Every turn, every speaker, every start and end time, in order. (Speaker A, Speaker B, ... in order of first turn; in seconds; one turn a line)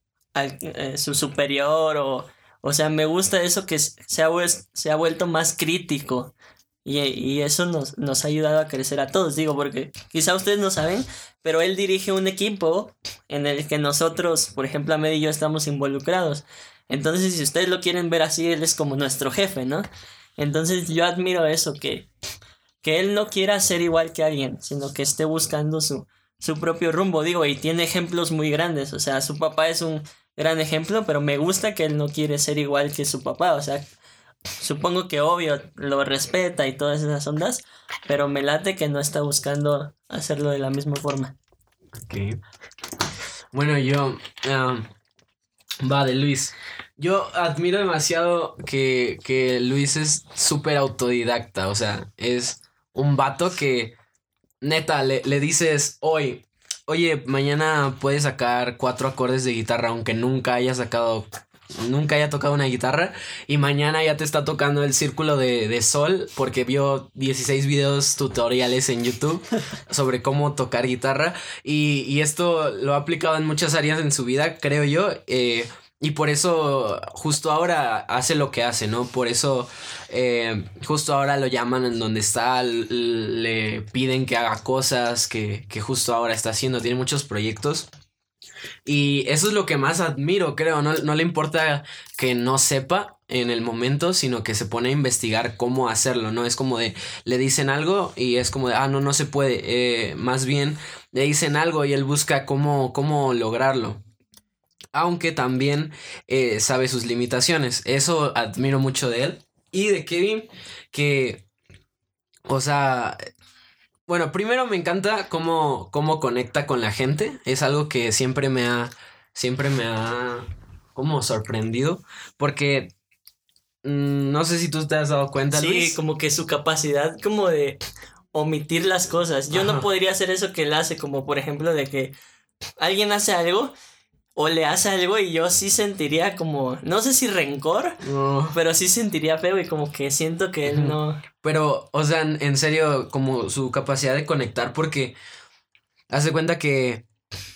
Speaker A: 0.3-6.3
Speaker A: 6.8-19.9
Speaker A: 20.4-22.1
Speaker A: 22.8-33.9
Speaker A: 34.6-41.4
Speaker B: 42.0-42.4
Speaker B: 43.5-44.9
Speaker B: 45.8-54.0
Speaker B: 54.6-87.9
Speaker B: 88.8-104.0
Speaker B: 104.9-111.5
Speaker B: 112.5-113.2
Speaker B: 114.1-122.9
Speaker B: 123.8-126.0
Speaker A: 125.5-127.8
Speaker A: 128.3-132.1
Speaker B: 129.5-129.8
Speaker A: 132.8-133.8
Speaker A: 134.3-138.0
Speaker B: 138.0-138.6
Speaker A: 138.5-141.2
Speaker B: 140.6-145.2
Speaker B: 146.1-147.0